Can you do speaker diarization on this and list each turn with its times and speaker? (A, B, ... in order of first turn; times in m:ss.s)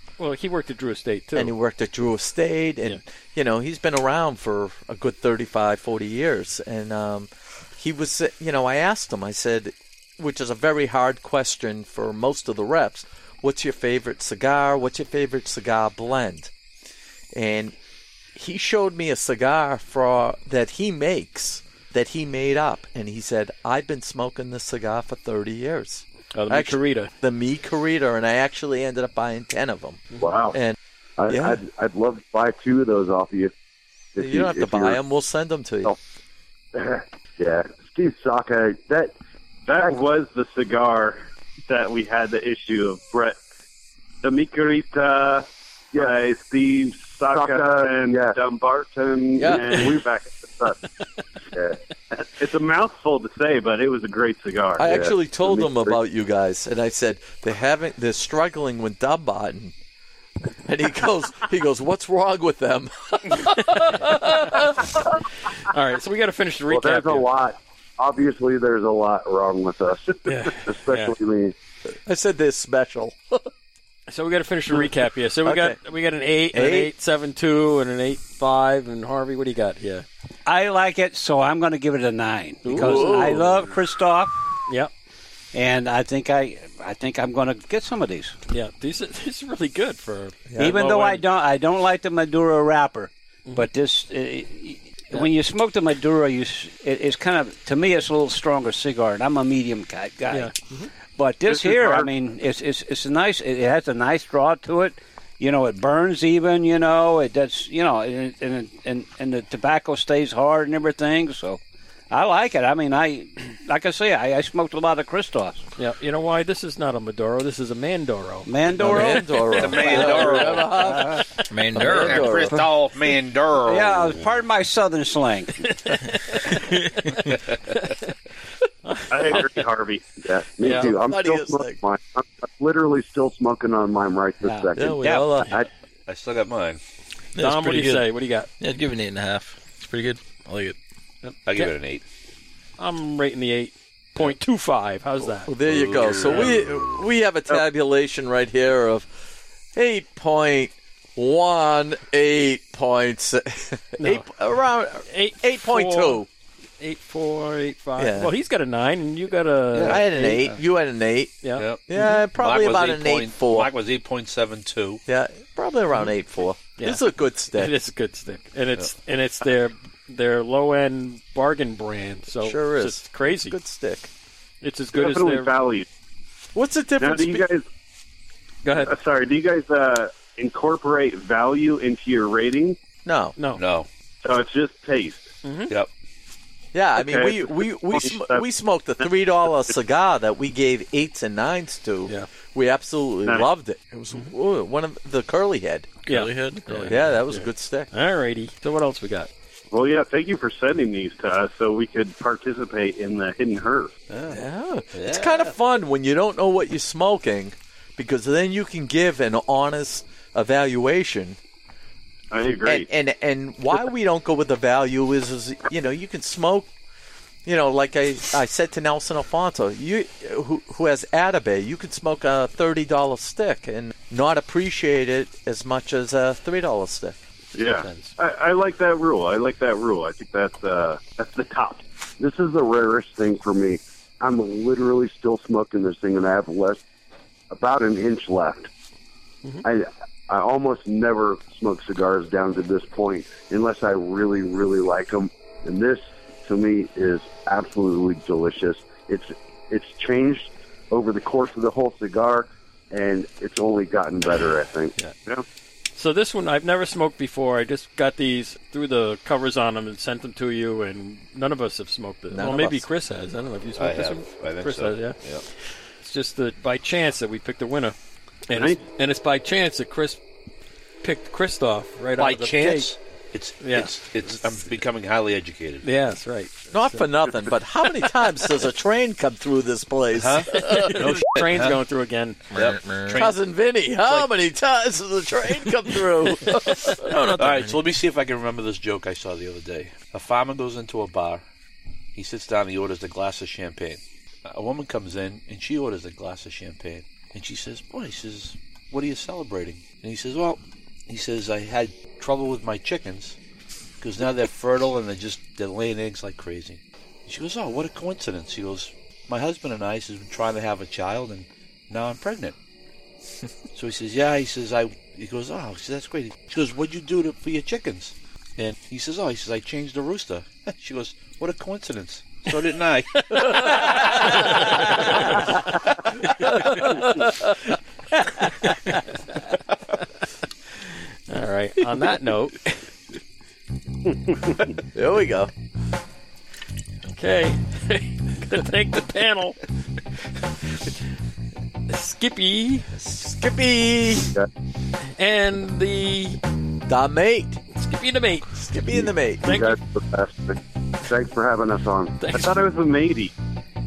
0:00.2-0:01.5 A
0:01.3-0:16.5 B
0:17.3-0:17.7 B
0:18.3-0:30.8 B
0:26.3-0:27.1 A
0:30.2-0:30.6 C
0:31.2-0:33.5 C
0:31.3-0:31.6 B
0:34.1-0:35.0 C
0:34.2-0:35.9 B
0:36.7-0:39.1 C
0:39.7-0:43.4 D
0:44.2-0:50.8 D
0:47.3-0:48.4 C
0:49.4-0:50.0 B
0:49.4-0:49.7 C
0:51.5-0:51.8 C
0:52.1-0:54.8 D
0:54.8-0:59.7 B
0:54.8-0:56.0 C
1:00.6-1:05.1 B
1:03.6-1:04.4 A
1:05.6-1:07.3 A
1:06.7-1:11.5 C
1:10.2-1:11.1 A
1:12.0-1:13.5 B
1:14.1-1:20.0 A
1:15.4-1:15.8 B
1:16.5-1:16.9 B
1:20.4-1:24.3 E
1:22.6-1:23.5 A
1:22.7-1:23.6 B
1:25.5-1:28.3 E
1:28.5-1:31.2 A
1:30.5-1:30.7 B
1:30.6-1:40.5 E
1:40.3-1:40.9 A
1:41.2-1:51.6 E
1:41.4-1:42.1 D
1:52.1-1:55.6 E
1:55.8-1:58.5 A
1:58.4-2:01.3 E
1:58.8-2:02.6 B
1:59.5-2:00.8 F
2:01.5-2:02.3 G
2:01.8-2:04.2 F
2:03.6-2:05.7 E
2:05.6-2:06.6 A
2:07.2-2:07.6 F
2:08.8-2:09.3 A
2:09.1-2:10.0 D
2:10.2-2:15.7 C
2:10.6-2:11.8 B
2:14.4-2:14.7 E
2:14.8-2:15.6 B
2:15.0-2:15.4 F
2:16.1-2:16.8 F
2:17.3-2:20.8 G
2:17.4-2:18.5 A
2:21.4-2:22.0 F
2:22.8-2:25.5 A
2:25.4-2:36.3 B
2:25.7-2:27.0 F
2:26.0-2:26.5 A
2:34.0-2:34.3 A
2:35.0-2:36.2 A
2:36.8-2:40.4 A
2:38.0-2:38.3 B
2:39.7-2:40.0 F
2:39.8-2:43.7 B
2:41.6-2:45.0 F
2:45.1-2:47.7 B
2:47.5-2:53.6 A
2:52.4-2:54.1 B
2:54.6-2:55.5 A
2:54.9-2:55.9 D
2:56.5-2:57.5 B
2:57.0-2:57.6 D
2:58.6-2:58.9 A
2:58.7-3:02.8 D
3:03.0-3:03.4 B
3:03.5-3:03.9 F
3:04.2-3:05.3 D
3:05.4-3:05.7 A
3:06.7-3:16.0 B
3:07.0-3:08.4 D
3:16.0-3:17.0 G
3:16.1-3:19.3 A
3:16.9-3:17.9 B
3:19.7-3:23.9 D
3:24.1-3:25.5 F
3:24.3-3:31.4 B
3:32.3-3:32.9 D
3:32.6-3:36.7 B
3:37.4-3:47.2 B
3:47.5-3:51.8 D
3:52.2-3:56.8 C
3:57.5-3:58.7 C
3:59.6-4:15.4 C
4:16.0-4:25.2 A
4:22.3-4:22.9 B
4:23.8-4:25.4 F
4:26.0-4:28.0 A
4:28.5-4:30.2 A
4:31.0-4:32.9 A
4:32.2-4:35.8 F
4:33.6-4:33.9 A
4:35.8-4:37.1 A
4:36.7-4:41.2 B
4:40.2-4:41.8 F
4:40.5-4:42.4 A
4:42.5-4:43.3 G
4:42.5-4:43.3 F
4:43.1-4:47.1 B
4:47.0-4:47.8 G
4:47.4-4:51.4 F
4:52.1-5:03.4 F
5:04.0-5:12.5 F
5:13.7-5:24.4 F
5:26.4-5:27.3 B
5:31.3-5:32.6 A
5:34.9-5:35.5 B
5:37.1-5:39.6 A
5:41.9-5:42.9 A
5:43.0-5:44.3 B
5:45.1-5:46.4 A
5:46.9-5:47.6 B
5:47.7-5:48.5 A
5:48.5-5:49.7 B
5:48.9-5:52.2 C
5:49.4-5:49.7 A
5:52.2-5:52.5 A
5:52.3-5:53.3 D